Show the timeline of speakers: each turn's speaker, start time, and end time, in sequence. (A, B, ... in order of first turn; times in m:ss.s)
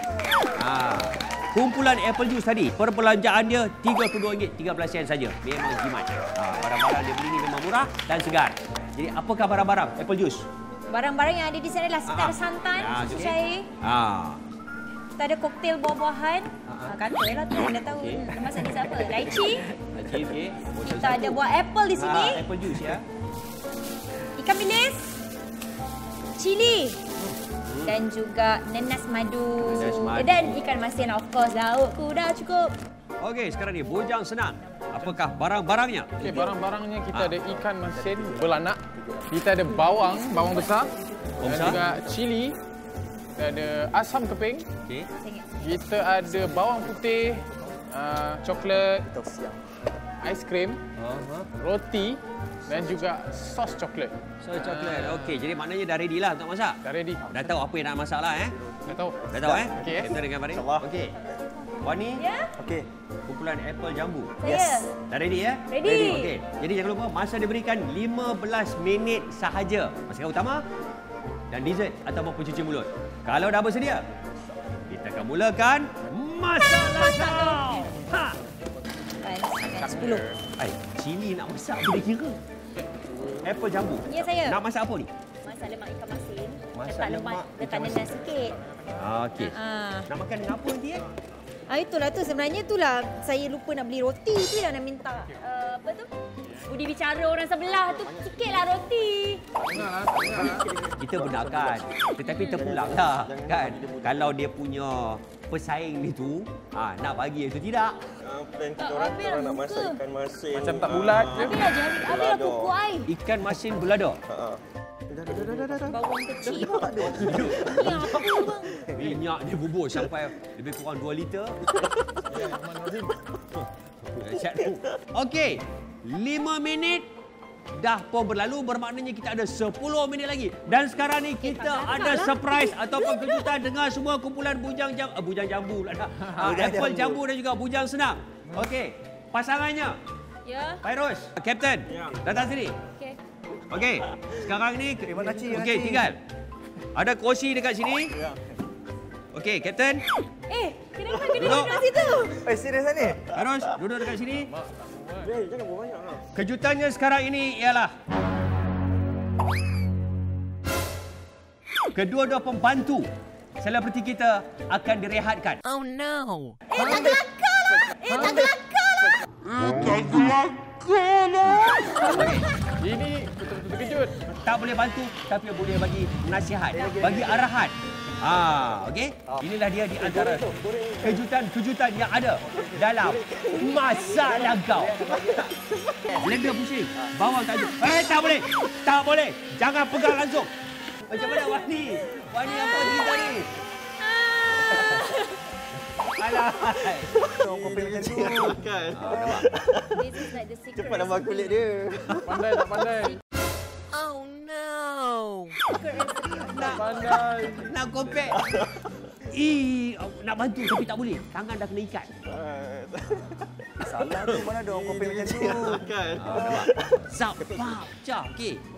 0:00.6-0:10.5 A
0:10.9-0:13.7 B
0:12.1-0:14.4 A
0:15.2-0:19.8 B
0:16.7-0:17.0 A
0:18.0-0:18.3 A
0:19.8-0:21.4 A
0:20.8-0:22.4 B
0:22.0-0:23.1 A
0:24.4-0:25.2 B
0:26.4-0:27.0 B
0:27.2-0:28.0 A
0:27.8-0:32.7 B
0:29.6-0:30.6 A
0:33.2-0:36.4 A
0:36.2-0:40.9 C
0:38.0-0:39.1 D
0:40.1-0:40.8 B
0:41.4-0:41.8 A
0:41.4-0:42.6 C
0:43.4-0:44.7 C
0:45.2-0:46.0 B
0:45.6-0:49.1 C
0:49.1-0:49.6 D
0:50.2-0:50.8 C
0:51.0-0:51.5 A
0:51.6-0:55.4 C
0:54.4-0:56.8 A
0:56.8-0:57.5 C
0:57.3-0:58.6 A
0:58.9-1:00.1 C
0:59.3-1:01.2 A
0:59.3-1:00.9 E
1:01.2-1:02.5 B
1:01.8-1:02.2 A
1:03.3-1:04.4 A
1:04.4-1:04.9 B
1:04.4-1:04.8 D
1:05.0-1:10.6 A
1:05.7-1:06.3 B
1:11.5-1:14.1 A
1:14.9-1:18.4 A
1:16.8-1:17.9 B
1:19.2-1:20.2 B
1:19.8-1:20.4 C
1:20.6-1:22.4 A
1:22.8-1:23.5 C
1:23.4-1:25.1 A
1:24.1-1:24.6 B
1:25.4-1:28.6 B
1:26.7-1:28.0 A
1:28.0-1:29.2 C
1:29.0-1:29.6 A
1:29.4-1:30.1 B
1:30.1-1:31.0 A
1:31.7-1:36.1 B
1:36.6-1:39.5 B
1:37.8-1:38.7 E
1:39.6-1:44.4 E
1:39.7-1:40.7 C
1:41.0-1:48.1 A
1:42.2-1:42.7 B
1:48.2-1:52.7 E
1:48.8-1:50.0 B
1:50.5-1:51.7 C
1:51.4-1:53.1 B
1:53.1-1:54.2 A
1:54.3-1:58.1 E
1:55.8-1:58.9 B
1:56.8-1:58.3 A
1:58.9-2:01.7 A
1:58.9-1:59.2 E
2:01.8-2:02.5 E
2:02.3-2:03.2 C
2:04.1-2:07.1 A
2:07.8-2:20.0 A
2:11.4-2:13.5 B
2:16.2-2:16.5 C
2:16.4-2:17.2 D
2:20.4-2:20.8 B
2:20.8-2:22.8 A
2:21.9-2:22.5 E
2:23.7-2:26.2 A
2:25.0-2:26.1 D
2:27.0-2:28.2 A
2:28.1-2:28.4 E
2:29.3-2:30.0 A
2:30.5-2:32.4 B
2:31.3-2:31.8 A
2:32.3-2:33.3 D
2:33.4-2:34.5 A
2:34.4-2:35.4 C
2:35.2-2:36.3 E
2:36.4-2:37.9 A
2:42.0-2:43.1 A
2:43.6-2:45.8 A
2:46.7-2:49.2 B
2:46.8-2:47.2 D
2:46.8-2:47.1 C
2:48.0-2:48.5 D
2:48.1-2:48.5 C
2:51.3-2:52.5 A
2:52.8-2:54.2 C
2:54.4-3:00.5 A
2:56.7-2:57.5 D
3:00.0-3:01.2 E
3:01.0-3:05.1 A
3:02.6-3:03.0 D
3:03.2-3:03.7 E
3:03.6-3:04.3 B
3:04.5-3:05.6 D
3:05.1-3:06.2 E
3:06.1-3:06.4 D
3:06.1-3:10.5 A
3:11.1-3:13.5 A
3:12.4-3:13.5 B
3:14.0-3:15.5 B
3:16.0-3:17.2 A
3:16.9-3:22.8 E
3:17.3-3:19.1 D
3:19.0-3:19.5 A
3:19.9-3:21.7 B
3:22.2-3:23.2 C
3:23.9-3:25.6 A
3:25.6-3:27.3 B
3:26.4-3:28.4 A
3:26.6-3:27.6 C
3:27.1-3:27.6 E
3:28.3-3:29.1 E
3:29.3-3:32.1 A
3:32.2-3:37.8 E
3:33.8-3:35.9 D
3:36.2-3:38.6 A